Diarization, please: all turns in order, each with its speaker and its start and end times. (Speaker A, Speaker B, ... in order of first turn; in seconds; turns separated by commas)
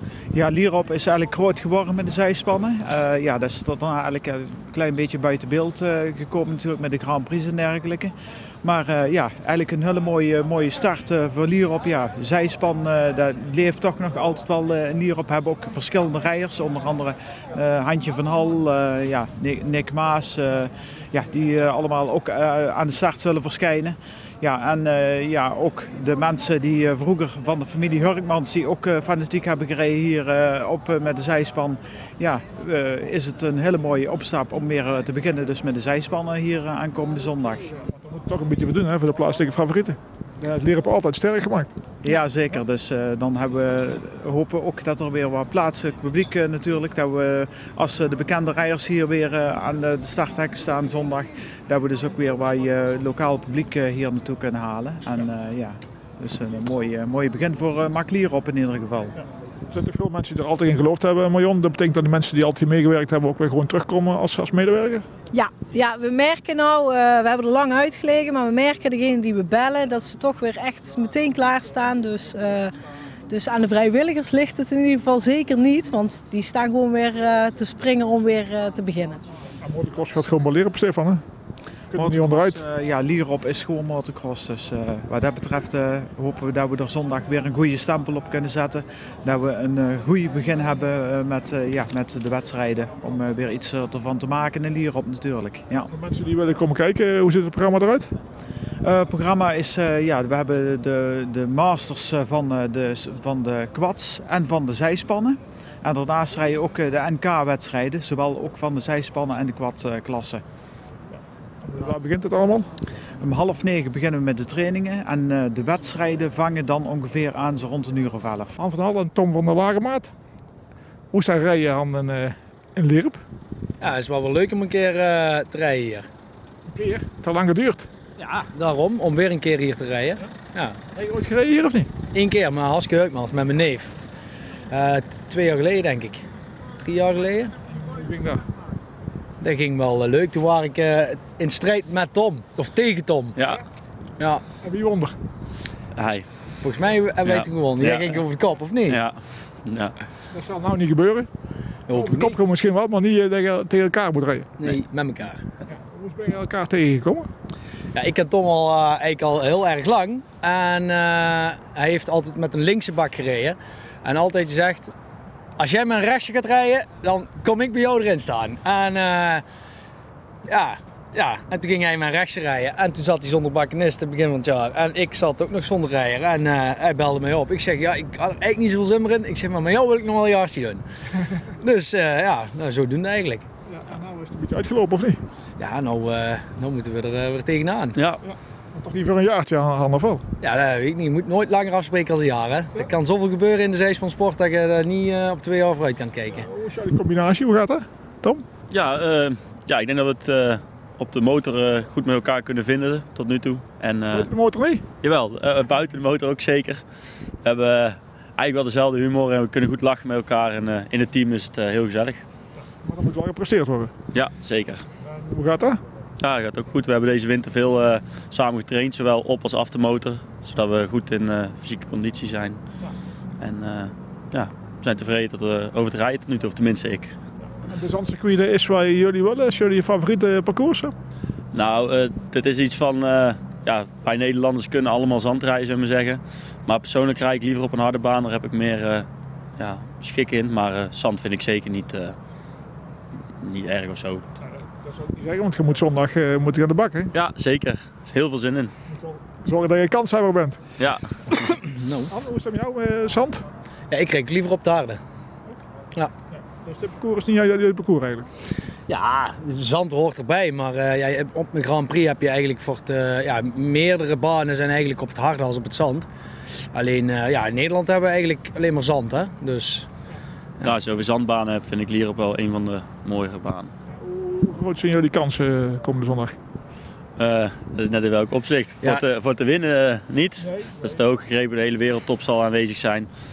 Speaker A: 0.3-37.7, Speaker B: 38.0-41.7, Speaker A: 42.0-59.2, Speaker B: 59.7-65.0, Speaker C: 65.3-72.7, Speaker C: 73.3-79.2, Speaker B: 79.6-81.2, Speaker B: 81.9-82.6, Speaker A: 81.9-95.9, Speaker B: 95.9-98.1, Speaker A: 98.8-110.4, Speaker B: 111.7-112.7, Speaker A: 113.2-118.6, Speaker B: 118.6-120.1, Speaker B: 121.1-123.2, Speaker D: 123.8-126.1, Speaker B: 126.7-127.9, Speaker D: 128.2-130.8, Speaker B: 130.9-131.9, Speaker D: 132.1-133.9, Speaker D: 134.7-136.2, Speaker D: 136.8-137.5, Speaker B: 137.7-138.4, Speaker D: 139.4-143.3, Speaker E: 143.4-143.6, Speaker D: 144.2-144.4, Speaker B: 144.6-145.2, Speaker E: 145.9-146.3, Speaker D: 146.6-149.0, Speaker E: 147.2-148.3, Speaker E: 148.9-149.9, Speaker B: 150.3-151.3, Speaker D: 151.9-152.4, Speaker B: 151.9-154.5, Speaker D: 154.6-155.4, Speaker B: 155.8-157.3, Speaker D: 157.9-164.9, Speaker D: 165.6-169.4, Speaker D: 170.5-180.8, Speaker D: 181.6-183.5, Speaker B: 183.7-185.2, Speaker D: 185.6-188.0, Speaker E: 188.0-188.2, Speaker B: 188.3-190.2, Speaker D: 190.4-196.5, Speaker B: 196.3-198.4, Speaker E: 198.7-204.3, Speaker B: 204.1-204.8, Speaker E: 205.0-206.8, Speaker E: 207.4-212.2, Speaker B: 212.9-213.9, Speaker E: 214.1-214.8, Speaker B: 215.2-215.8, Speaker E: 216.2-222.6, Speaker E: 223.4-227.1, Speaker B: 227.7-230.9, Speaker E: 231.5-239.1, Speaker E: 239.6-242.2, Speaker E: 243.4-244.2, Speaker B: 244.8-247.1, Speaker E: 247.1-248.7, Speaker B: 249.0-250.6, Speaker E: 250.8-251.6, Speaker D: 251.6-252.1, Speaker B: 252.1-253.5, Speaker D: 253.9-255.0, Speaker B: 256.6-258.3, Speaker D: 258.9-266.1, Speaker D: 266.7-269.9, Speaker E: 270.6-273.7, Speaker B: 274.0-276.4, Speaker E: 277.2-283.1